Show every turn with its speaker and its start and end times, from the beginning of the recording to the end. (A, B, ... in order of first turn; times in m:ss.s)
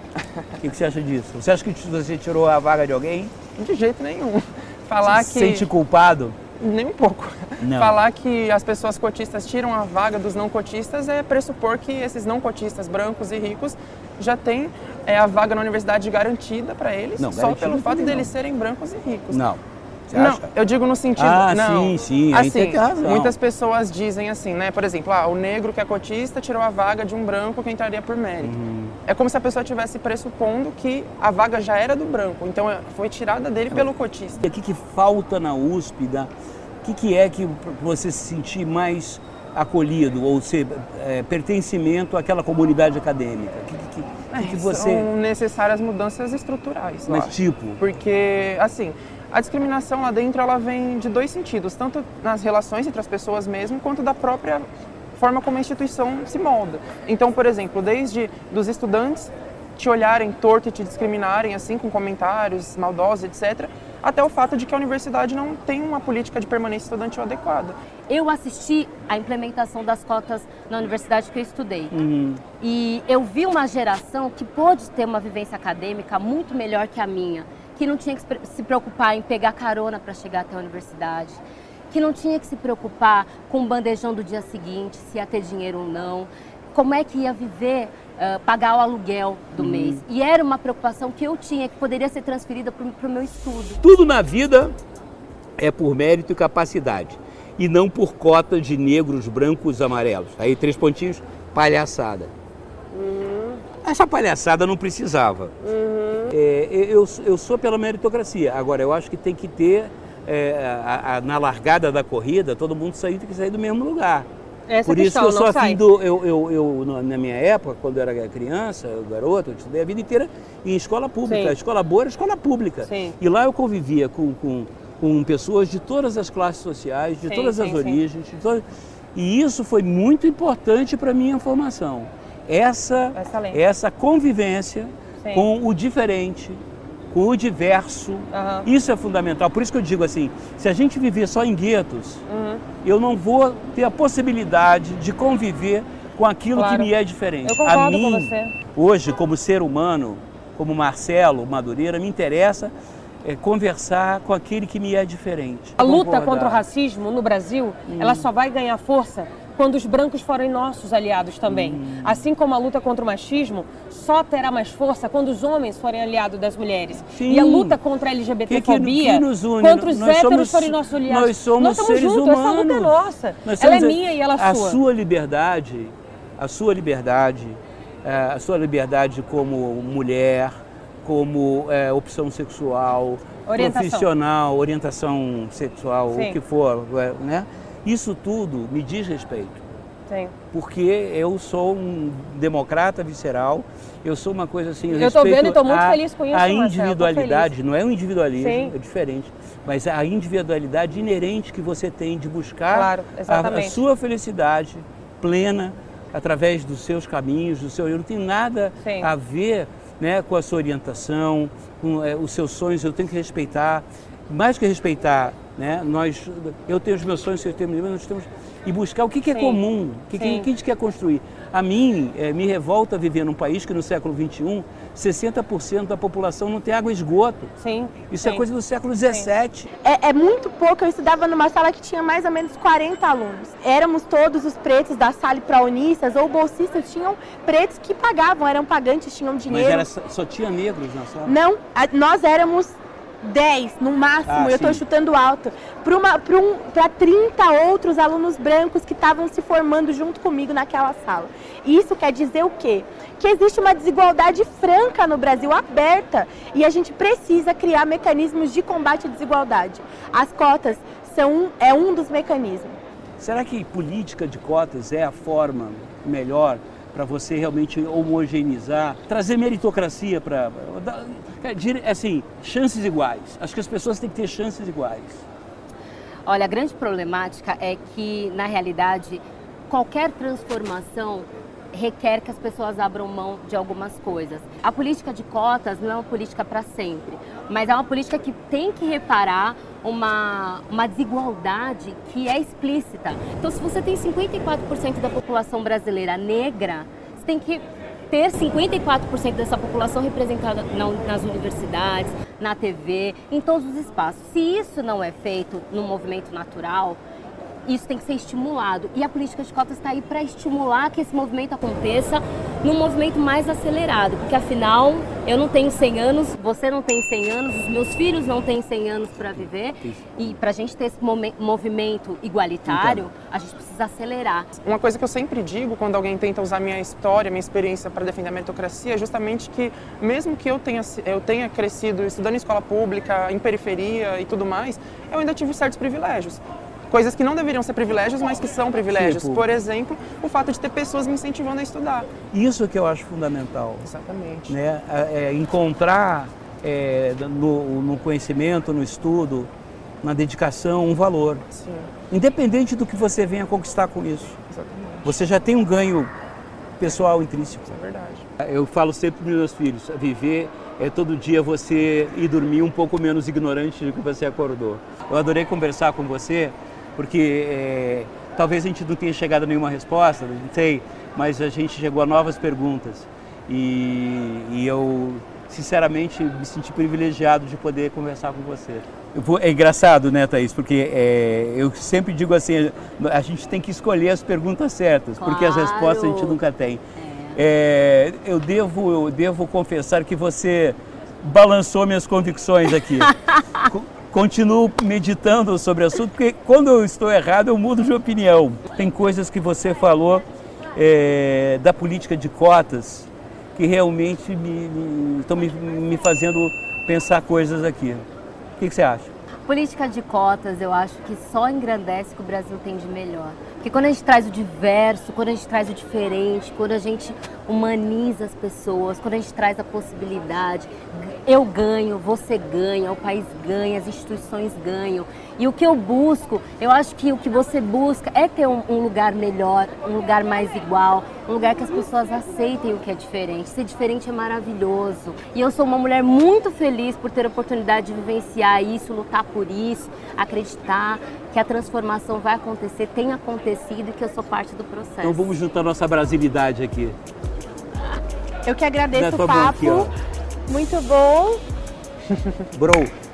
0:00.6-0:03.3 A
0:03.6-0:05.7 B
0:05.0-0:06.4 A
0:06.6-0:19.4 B
0:07.6-0:08.0 A
0:17.2-0:18.3 A
0:19.3-0:20.5 A
0:20.1-0:28.5 B
0:21.2-0:23.4 A
0:28.4-0:29.0 A
0:29.1-0:34.4 B
0:34.4-0:36.3 A
0:36.8-0:45.1 A
0:44.3-1:07.8 B
0:47.1-0:47.8 A
1:08.1-1:11.9 C
1:11.9-1:12.4 A
1:12.6-1:21.4 C
1:21.9-1:33.8 C
1:29.6-1:30.0 A
1:33.8-1:34.8 A
1:35.6-1:42.3 A
1:43.0-1:43.5 D
1:43.8-1:45.6 A
1:45.8-1:46.1 D
1:46.1-1:54.3 A
1:54.7-1:55.8 D
1:54.9-2:08.6 A
2:01.3-2:01.6 D
2:02.9-2:03.2 D
2:07.3-2:08.0 D
2:09.2-2:22.2 A
2:13.2-2:13.6 D
2:18.3-2:18.7 D
2:22.3-2:22.6 D
2:22.8-2:36.6 A
2:26.6-2:26.9 D
2:27.4-2:28.5 D
2:35.8-2:54.8 D
2:37.9-2:38.3 A
2:41.4-2:42.2 A
2:47.1-2:47.8 A
2:48.5-3:09.6 A
3:03.5-3:04.1 D
3:06.1-3:06.4 D
3:10.1-3:10.3 D
3:10.5-3:47.5 A
3:15.0-3:17.5 D
3:18.4-3:18.7 D
3:22.7-3:23.8 D
3:28.8-3:29.1 D
3:39.3-3:39.6 D
3:40.2-3:40.5 D
3:47.6-3:48.4 D
3:48.1-3:49.7 A
3:49.8-3:59.9 E
3:59.5-4:01.4 A
4:01.3-4:22.8 E
4:04.3-4:04.8 A
4:23.2-4:35.3 A
4:36.3-5:07.0 C
5:07.7-5:24.5 C
5:19.2-5:20.4 A
5:22.7-5:23.1 A
5:24.6-5:42.1 B
5:38.9-5:39.4 A
5:42.3-5:43.9 A
5:43.9-5:44.6 B
5:44.5-5:49.5 A
5:50.0-5:51.4 A
5:51.5-5:51.9 B
5:52.1-5:54.4 A
5:54.5-5:55.1 B
5:55.0-5:56.1 A
5:56.8-5:57.7 A
5:57.7-5:58.3 B
5:58.4-6:26.8 A
6:25.2-6:26.4 C
6:27.0-6:27.4 C
6:27.4-6:48.0 A
6:33.1-6:33.7 C
6:48.6-6:49.1 A
6:49.5-7:25.3 C
7:25.0-7:27.0 A
7:28.4-7:29.9 E
7:28.9-7:29.9 A
7:30.5-7:31.4 E
7:32.1-7:32.4 B
7:32.5-7:32.9 A